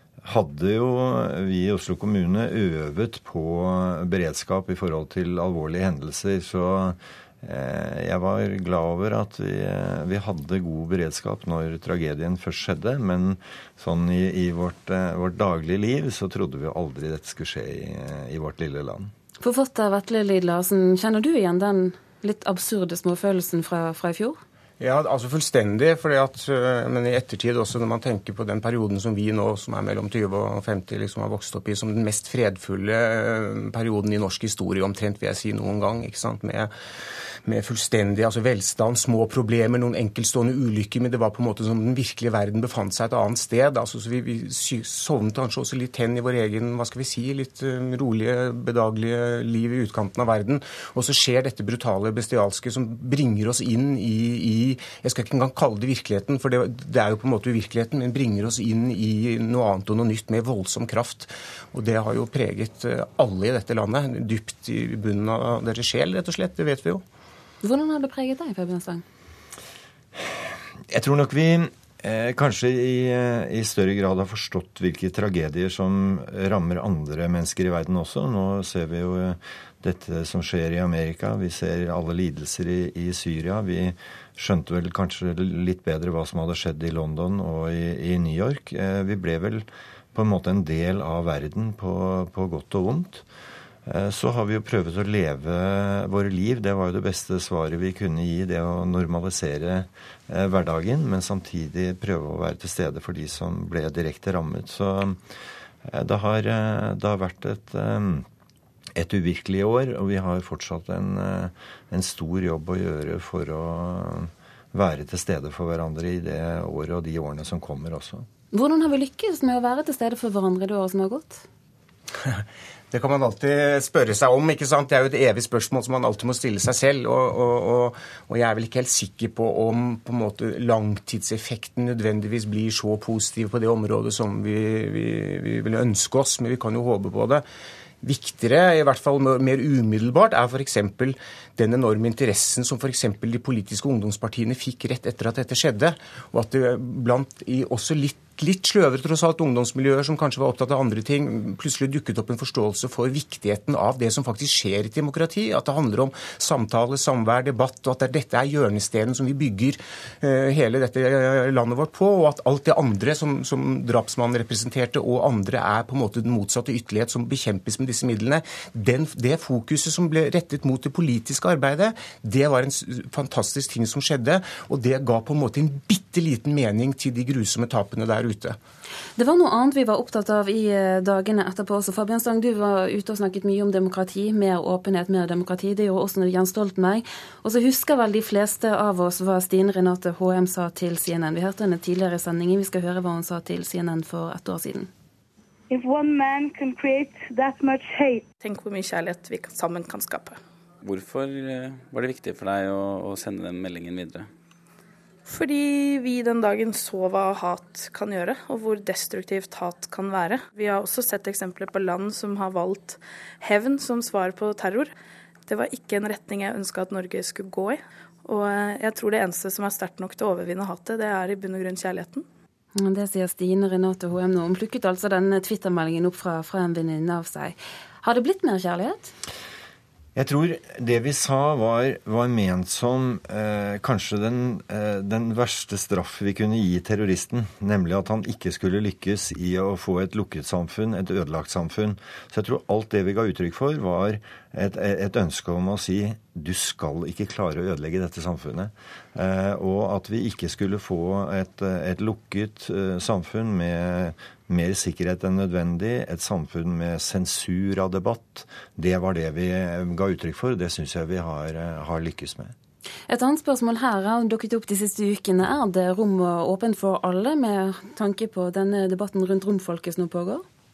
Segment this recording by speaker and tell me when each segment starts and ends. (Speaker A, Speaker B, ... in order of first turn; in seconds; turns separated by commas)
Speaker A: 0.2-19.1, Speaker B: 19.4-24.4, Speaker C: 24.8-36.7, Speaker C: 37.4-67.0, Speaker B: 67.6-69.0, Speaker A: 70.1-93.2, Speaker A: 93.8-105.2, Speaker A: 105.8-108.3, Speaker A: 109.0-118.3, Speaker B: 118.5-121.4, Speaker C: 122.2-137.4, Speaker C: 138.0-178.6, Speaker B: 179.2-194.9, Speaker D: 195.7-198.3, Speaker E: 198.4-200.4, Speaker F: 200.8-204.3, Speaker E: 205.2-214.9, Speaker E: 215.5-222.2, Speaker B: 222.8-229.1, Speaker A: 230.1-262.5, Speaker B: 263.1-270.4